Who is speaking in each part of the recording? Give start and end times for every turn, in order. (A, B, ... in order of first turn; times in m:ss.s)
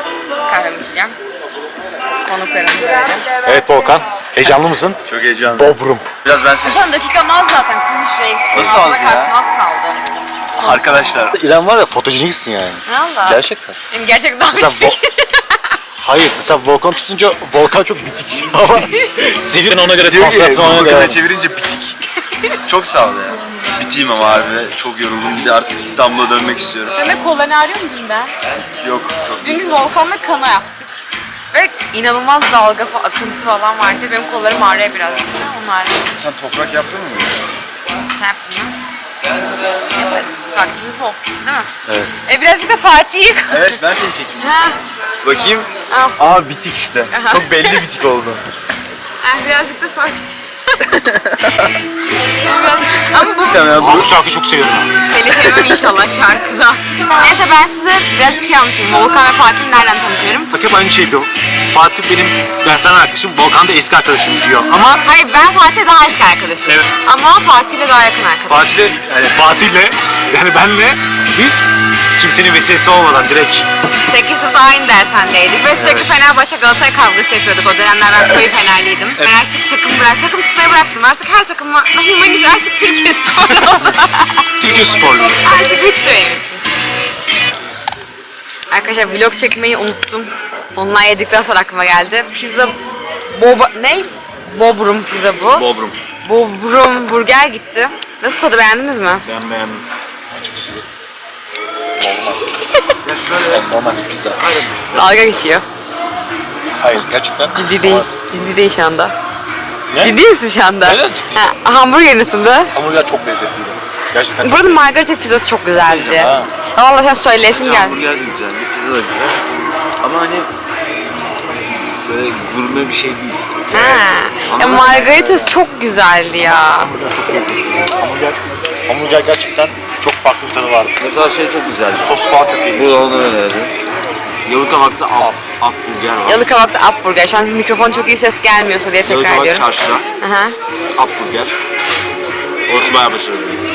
0:00.4-0:01.2 A
0:02.1-0:03.3 A
0:03.4-0:05.0 B
0:05.0-0:06.9 C
0:05.5-0:06.1 B
0:06.6-0:10.0 A
0:08.5-0:09.3 C
0:10.6-0:11.2 A
0:10.6-0:11.4 C
0:11.1-0:13.8 B
0:12.8-0:15.6 A
0:14.5-0:15.0 B
0:16.0-0:21.2 B
0:18.8-0:19.2 A
0:20.0-0:22.0 C
0:22.6-0:26.9 C
0:26.9-0:28.3 A
0:28.8-0:29.8 C
0:29.4-0:30.9 A
0:31.5-0:36.1 A
0:36.2-0:37.4 C
0:38.1-0:38.8 A
0:39.8-0:43.8 A
0:41.9-0:42.1 B
0:43.5-0:44.4 C
0:44.4-0:44.8 A
0:45.2-0:48.4 C
0:45.9-0:46.2 A
0:47.1-0:47.7 A
0:49.2-0:50.9 A
0:50.9-0:51.7 C
0:52.4-0:53.9 A
0:53.4-0:54.1 C
0:53.7-0:54.9 B
0:55.0-1:00.5 A
1:00.5-1:05.0 B
1:04.9-1:08.9 A
1:08.5-1:13.6 B
1:14.0-1:24.4 A
1:15.7-1:16.2 B
1:24.6-1:25.4 B
1:25.4-1:26.6 A
1:28.7-1:32.8 A
1:33.3-1:35.6 A
1:35.5-1:36.0 C
1:36.2-1:39.2 A
1:39.2-1:39.8 C
1:40.3-1:40.8 B
1:42.0-1:42.5 B
1:43.0-1:45.2 C
1:43.5-1:44.4 B
1:44.9-1:45.6 A
1:46.8-1:48.1 B
1:47.5-1:49.1 A
1:50.0-1:52.7 A
1:50.8-1:51.4 B
1:52.7-1:54.8 B
1:54.4-1:58.0 A
1:55.8-1:56.3 C
1:56.1-1:56.5 B
1:57.5-1:59.4 C
2:00.0-2:00.5 C
2:02.0-2:03.8 C
2:03.7-2:06.9 A
2:04.5-2:05.5 C
2:06.8-2:11.0 B
2:11.0-2:12.2 C
2:12.0-2:12.9 B
2:12.7-2:13.7 C
2:14.4-2:16.4 C
2:16.2-2:19.6 A
2:19.0-2:20.0 C
2:20.2-2:20.6 A
2:21.0-2:21.5 C
2:22.7-2:23.6 C